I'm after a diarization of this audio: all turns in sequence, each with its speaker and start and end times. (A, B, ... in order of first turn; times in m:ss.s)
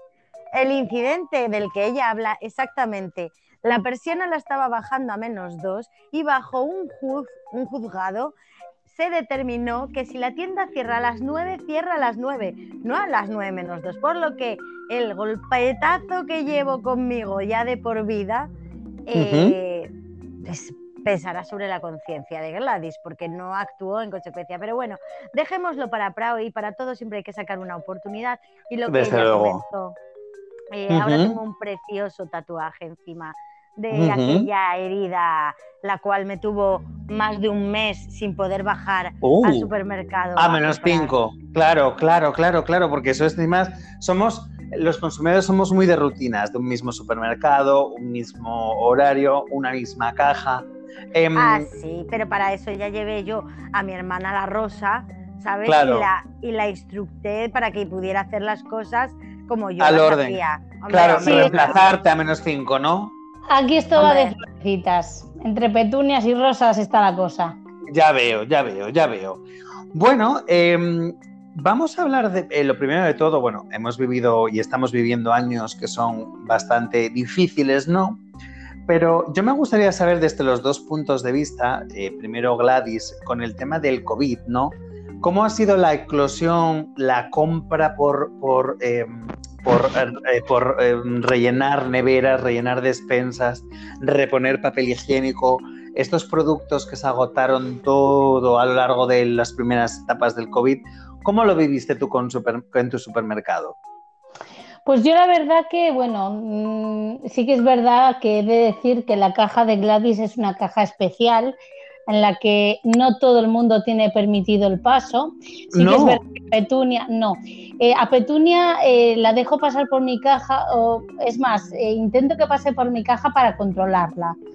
0:00.5-0:08.3 A
0:08.8-0:18.5 A
0:19.0-0:30.0 A
0:19.1-0:19.6 B
0:28.9-0:29.6 B
0:30.7-0:41.1 A
0:30.9-0:31.4 B
0:33.9-0:34.5 B
0:39.2-0:39.7 B
0:40.4-0:51.7 B
0:51.3-1:02.0 A
0:55.6-0:56.1 B
0:59.8-1:00.4 B
1:00.9-1:03.1 B
1:01.2-1:01.6 C
1:03.5-1:07.6 C
1:04.0-1:04.3 A
1:07.9-1:18.2 B
1:18.9-1:43.8 B
1:44.8-1:51.5 C
1:52.1-2:04.4 C
1:55.7-1:56.2 B